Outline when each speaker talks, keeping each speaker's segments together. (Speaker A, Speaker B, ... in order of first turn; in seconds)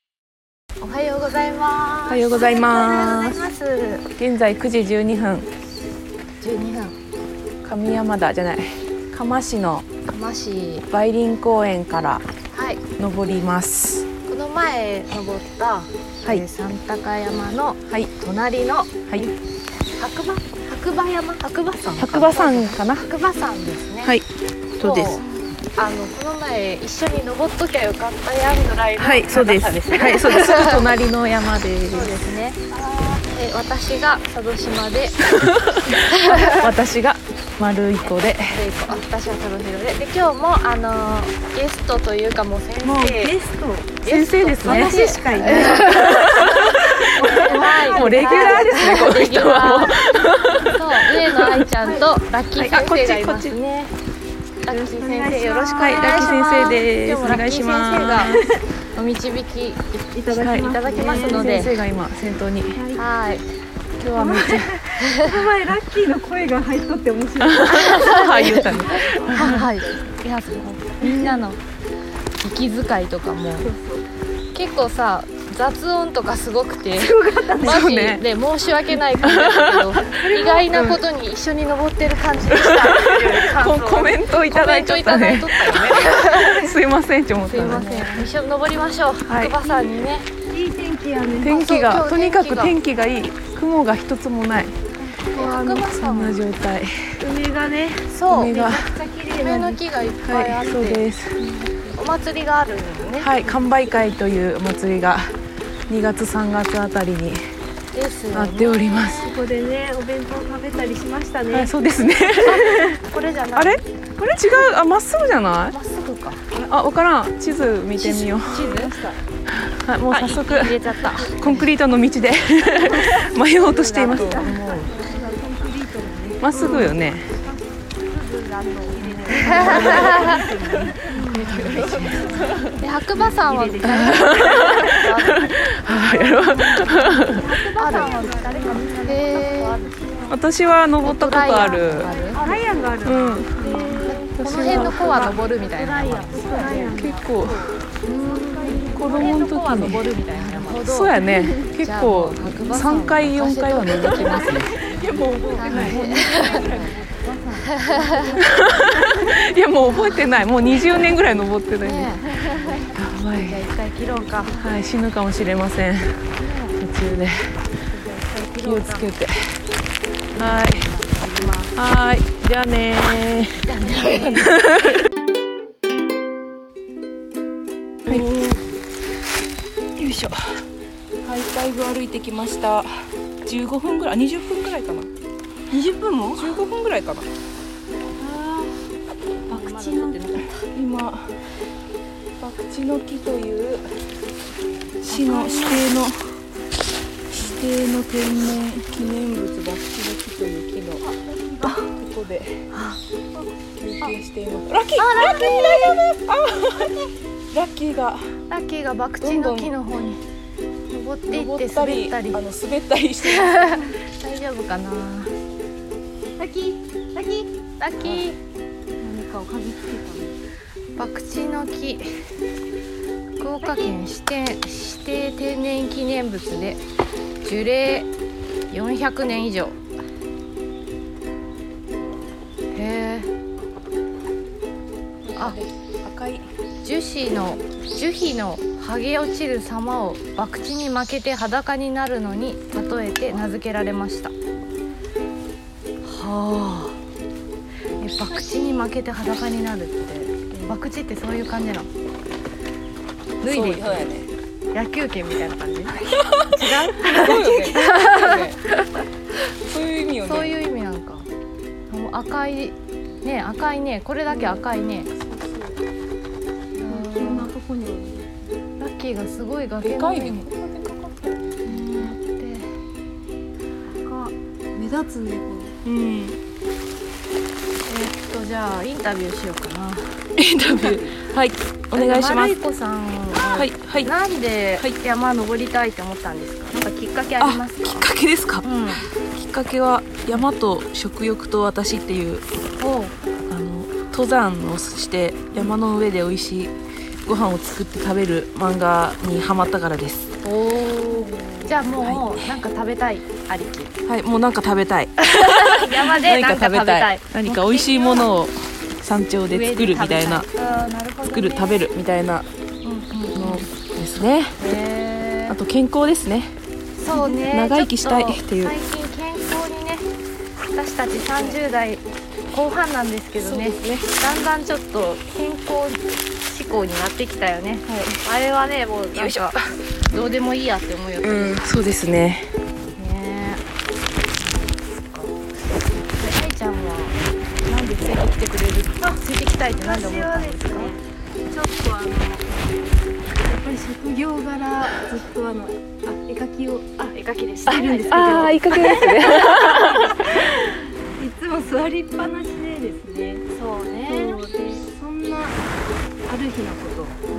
Speaker A: 0.8-4.0, 6.4-7.0, 10.1-10.9, 12.5-12.8, 14.3-18.9, 20.0-24.2, 24.8-25.2, 25.7-30.9, 31.9-35.2, 35.8-36.7, 38.4-43.4, 44.0-46.6, 47.2-50.0, 50.6-53.9, 54.6-58.4, 58.9-61.7, 62.9-63.5, 65.0-65.4, 67.6-71.6, 72.4-73.7, 74.5-86.6, 87.4-90.3, 91.5-92.7, 95.0-96.4, 98.1-101.1, 101.9-103.5, 107.9-109.3, 112.4-113.8, 115.7-116.4, 118.0-118.9, 120.1-121.7, 123.6-125.3, 126.5-127.6, 128.9-130.4, 131.1-135.8, 137.8-140.0, 141.0-147.0, 148.0-151.2, 151.8-154.7, 155.5-158.4, 159.8-161.1, 161.8-164.7, 166.4-166.8, 167.9-169.1, 170.3-171.7, 173.6-174.5, 189.5-190.5, 195.1-195.8, 202.7-203.0, 205.0-206.0, 208.5-210.2, 210.9-212.4, 213.2-215.3, 217.8-218.4, 221.0-222.1, 223.4-226.8, 227.4-228.1, 228.7-229.8, 232.7-233.3, 236.8-244.3, 246.0-247.0, 248.0-251.9, 253.4-254.1, 254.7-258.9, 260.2-261.3, 261.9-265.1, 266.8-267.5, 268.8-270.5, 271.6-272.7, 277.9-280.2, 281.9-288.1, 288.6-289.1, 292.8-293.1, 300.4-303.9, 305.2-308.4, 309.5-311.9, 312.8-313.7, 314.6-315.6, 316.9-320.1, 320.7-331.7, 332.9-333.6, 334.5-335.4, 336.1-340.9, 347.1-349.1, 353.5-354.4
Speaker B: 2.1-3.4, 4.2-5.5, 7.6-9.9, 10.9-12.2, 13.0-14.1, 22.0-23.1, 24.8-25.2, 29.0-32.1, 35.2-38.6, 44.0-51.6, 52.5-53.6, 55.8-58.5, 60.3-62.8, 64.0-64.9, 67.4-69.7, 77.6-78.2, 79.2-81.0, 82.5-88.3, 89.2-89.5, 91.4-94.8, 95.3-96.9, 98.3-98.9, 100.2-101.4, 103.2-105.3, 105.9-107.4, 108.3-109.3, 111.5-112.7, 113.5-113.8, 114.3-115.8, 116.5-118.7, 119.5-124.9, 126.4-127.3, 129.3-130.3, 131.4-132.8, 133.8-137.6, 140.3-142.2, 143.0-143.6, 144.4-145.4, 146.4-147.7, 148.9-157.0, 158.4-162.4, 162.9-163.7, 164.5-166.2, 166.8-167.6, 168.6-169.6, 170.3-170.9, 171.7-175.0, 178.1-178.4, 180.0-180.5, 181.2-185.1, 186.4-187.3, 190.7-191.3, 192.4-193.9, 195.0-196.2, 197.3-201.0, 201.9-202.7, 203.8-208.3, 209.2-209.7, 211.3-213.8, 235.2-236.5, 253.4-254.3, 256.2-256.4, 257.0-258.6, 259.6-260.6, 264.3-264.6, 265.2-265.7, 269.8-272.1, 275.9-276.4, 280.4-282.6, 283.5-284.1, 287.4-292.4, 293.5-296.7, 297.2-300.4, 301.0-302.5, 304.1-310.5, 311.3-312.5, 313.4-314.6, 315.5-316.5, 317.2-318.7, 323.4-324.2, 327.9-328.2, 329.1-329.6, 331.2-332.5, 347.7-350.4
Speaker C: 42.8-44.0, 44.6-49.2, 54.7-56.4, 58.3-58.6, 60.1-61.7, 62.7-63.0, 64.2-67.9, 68.7-69.7, 71.0-71.3, 73.6-74.0, 77.0-77.9, 80.2-80.6, 90.5-91.6, 97.2-99.8, 101.5-101.9, 109.1-111.7, 112.4-113.0, 114.2-114.4, 118.4-119.2, 122.8-132.6, 133.2-135.1, 136.0-140.4, 141.6-149.8, 151.2-151.7, 153.9-157.1, 157.7-159.7, 178.1-178.6, 185.7-186.6, 188.2-188.8, 189.5-190.4, 201.0-201.9, 216.4-217.5, 219.0-220.4, 223.6-224.1, 257.1-257.9, 266.8-268.4, 273.8-275.8, 280.6-281.1, 339.8-342.5, 343.4-353.4, 354.1-355.6, 356.2-357.2